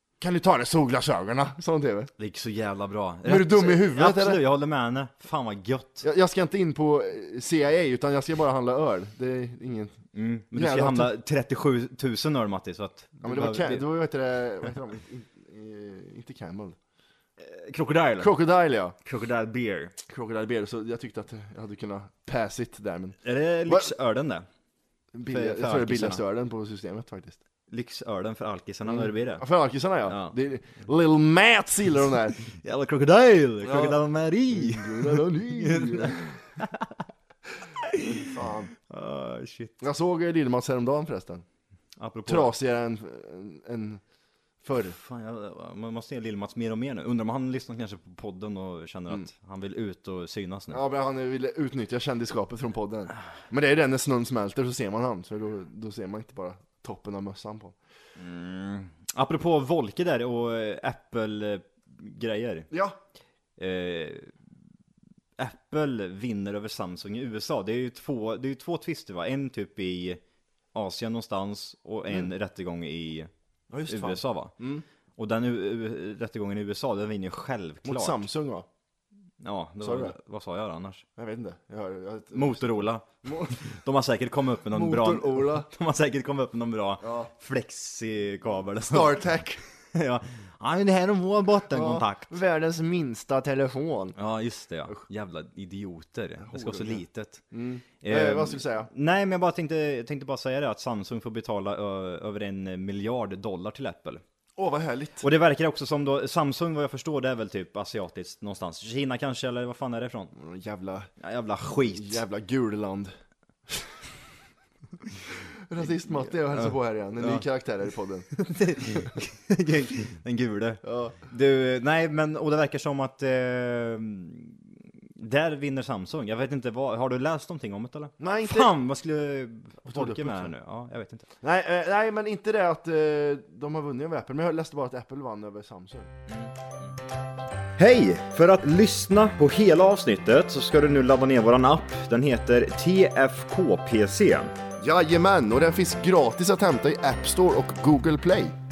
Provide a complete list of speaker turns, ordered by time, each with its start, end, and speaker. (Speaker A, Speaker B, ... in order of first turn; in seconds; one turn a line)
Speaker A: 0.2-2.1
Speaker B: 2.2-6.0
Speaker A: 3.2-4.4
Speaker A: 6.0-10.0
Speaker B: 10.1-13.8
Speaker A: 10.5-11.1
Speaker A: 13.2-16.8
Speaker B: 17.4-18.3
Speaker A: 18.2-18.9
Speaker B: 19.0-19.9
Speaker A: 20.1-23.1
Speaker B: 23.2-24.5
Speaker A: 25.1-27.4
Speaker B: 25.3-26.2
Speaker B: 27.7-29.5
Speaker A: 28.9-32.4
Speaker B: 30.1-30.3
Speaker B: 32.4-37.0
Speaker A: 33.6-34.0
Speaker A: 34.5-36.4
Speaker B: 37.8-38.3
Speaker A: 38.1-38.7
Speaker B: 38.9-39.8
Speaker A: 39.8-41.4
Speaker B: 42.0-42.5
Speaker A: 42.3-44.0
Speaker A: 44.6-45.0
Speaker B: 44.8-50.8
Speaker A: 50.7-57.8
Speaker B: 58.2-62.7
Speaker A: 62.7-63.0
Speaker B: 63.6-64.3
Speaker B: 65.4-70.2
Speaker B: 70.7-73.3
Speaker A: 73.7-74.8
Speaker B: 73.9-74.5
Speaker B: 75.2-78.2
Speaker A: 77.8-78.7
Speaker B: 79.4-81.0
Speaker A: 79.8-80.1
Speaker A: 81.2-83.6
Speaker B: 82.3-89.2
Speaker A: 84.7-85.7
Speaker A: 87.0-87.3
Speaker A: 88.9-89.6
Speaker B: 89.9-92.3
Speaker A: 91.7-94.2
Speaker B: 94.2-97.4
Speaker A: 96.4-98.9
Speaker B: 98.0-104.2
Speaker A: 104.6-105.3
Speaker B: 105.2-110.3
Speaker A: 110.3-111.1
Speaker B: 111.2-112.2
Speaker A: 111.8-113.1
Speaker A: 115.7-118.3
Speaker B: 118.3-131.3
Speaker A: 120.8-121.1
Speaker A: 128.2-128.7
Speaker A: 129.9-130.5
Speaker A: 131.4-136.1
Speaker B: 136.3-136.6
Speaker B: 137.8-144.5
Speaker A: 144.8-148.6